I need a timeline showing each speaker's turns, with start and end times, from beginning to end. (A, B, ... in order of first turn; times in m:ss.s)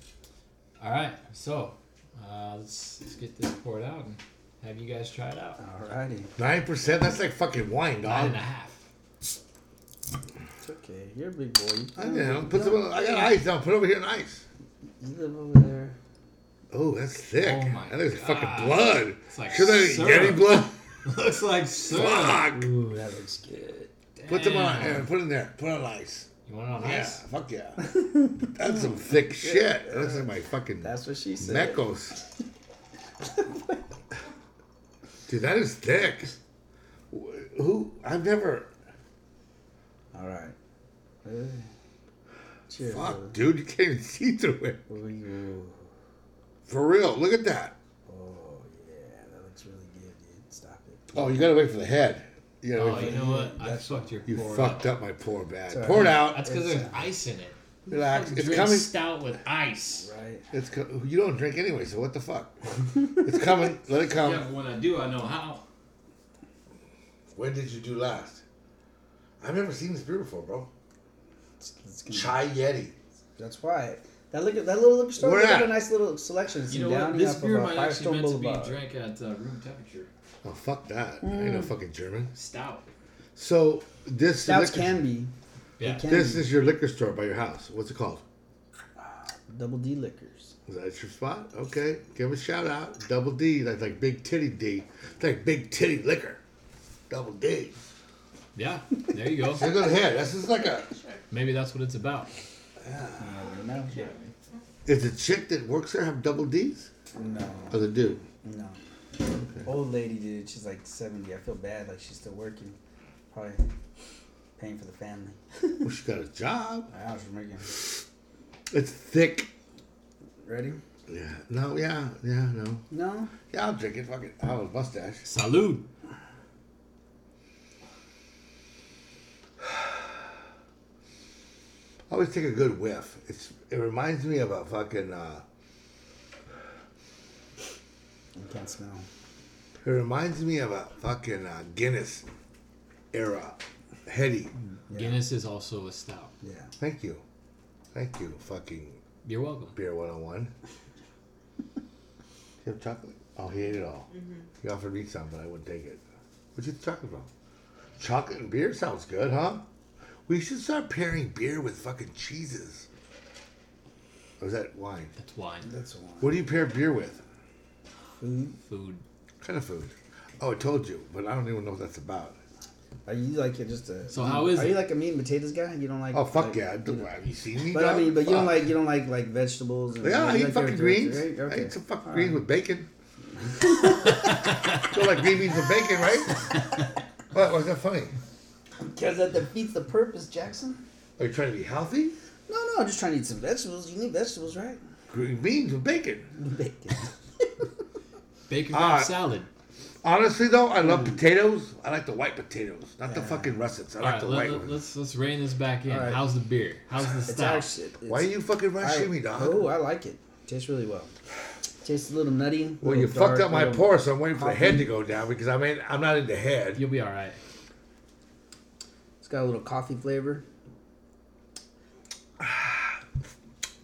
0:00.8-0:05.6 A
0:05.6-0:06.3 B
0:06.4-0:08.4 C
0:08.0-0:08.8 A
0:10.6-0:13.0 B
0:12.0-0:14.4 C
0:15.0-0:16.0 B
0:16.7-0:20.8 C
0:17.4-0:22.5 A
0:21.8-0:22.7 C
0:22.4-0:23.9 B
0:24.2-0:25.1 A
0:24.3-0:27.8 C
0:26.5-0:27.2 A
0:27.8-0:30.3 B
0:28.4-0:32.2 C
0:30.8-0:31.8 B
0:33.2-0:33.8 B
0:35.3-0:36.4 C
0:37.1-0:38.7 C
0:40.1-0:40.6 B
0:41.2-0:41.7 B
0:42.7-0:43.4 B
0:42.9-0:44.8 C
0:44.9-0:45.8 B
0:46.7-0:47.8 C
0:48.1-0:51.5 B
0:51.1-0:53.2 C
0:52.8-0:54.9 A
0:52.9-0:54.2 B
0:54.3-0:56.5 C
0:55.7-0:57.1 B
0:55.9-1:00.1 A
0:57.9-0:58.9 C
1:00.0-1:00.5 B
1:00.5-1:04.5 C
1:04.2-1:05.6 A
1:07.3-1:08.4 C
1:09.4-1:10.7 C
1:11.6-1:12.4 B
1:12.1-1:13.0 C
1:13.4-1:18.8 B
1:15.2-1:15.8 C
1:16.7-1:20.1 A
1:20.4-1:22.3 C
1:21.2-1:21.7 B
1:22.3-1:22.9 A
1:23.4-1:25.0 C
1:24.4-1:26.5 B
1:25.8-1:26.1 A
1:26.1-1:28.2 C
1:29.0-1:30.5 B
1:30.7-1:36.4 C
1:37.1-1:37.8 C
1:38.6-1:39.7 A
1:39.5-1:41.0 C
1:41.3-1:42.3 A
1:43.2-1:44.2 B
1:44.9-1:46.9 C
1:47.1-1:48.8 B
1:47.7-1:48.2 C
1:49.6-1:52.8 B
1:53.3-1:53.6 B
1:54.6-1:55.8 B
1:55.8-1:56.9 C
1:56.9-1:57.7 B
1:58.7-1:59.5 C
2:00.4-2:00.8 B
2:01.1-2:02.8 C
2:02.9-2:03.3 B
2:03.5-2:05.3 C
2:05.2-2:05.9 A
2:09.6-2:09.9 C
2:12.1-2:15.4 C
2:18.4-2:19.1 B
2:19.8-2:22.3 C
2:23.1-2:24.5 C
2:24.9-2:25.2 B
2:24.9-2:26.3 A
2:26.4-2:26.7 B
2:26.8-2:27.2 C
2:27.9-2:29.0 C
2:29.2-2:29.8 A
2:29.8-2:30.5 C
2:32.6-2:36.0 C
2:36.6-2:37.3 C
2:38.0-2:39.6 C
2:40.3-2:42.9 C
2:44.4-2:45.1 C
2:45.2-2:45.7 A
2:45.6-2:46.4 B
2:46.2-2:47.2 C
2:48.2-2:48.6 B
2:48.7-2:49.0 A
2:49.4-2:52.4 C
2:53.1-2:57.1 B
2:54.1-2:54.9 A
2:56.1-2:58.6 C
2:57.7-3:02.4 B
3:00.0-3:02.9 C
3:03.4-3:04.5 B
3:04.1-3:04.9 A
3:04.7-3:06.5 C
3:07.3-3:08.2 C
3:08.8-3:10.8 B
3:11.2-3:12.2 C
3:12.5-3:14.8 B
3:15.1-3:16.3 C
3:16.4-3:17.7 B
3:18.5-3:19.5 A
3:18.7-3:19.2 C
3:20.0-3:24.8 C
3:20.8-3:21.2 B
3:23.1-3:23.6 B
3:24.0-3:27.7 A
3:25.9-3:26.2 B
3:27.3-3:31.1 B
3:28.1-3:29.7 C
3:31.8-3:34.9 B
3:32.8-3:36.8 C
3:36.8-3:37.4 A
3:39.2-3:40.4 B
3:42.4-3:43.1 C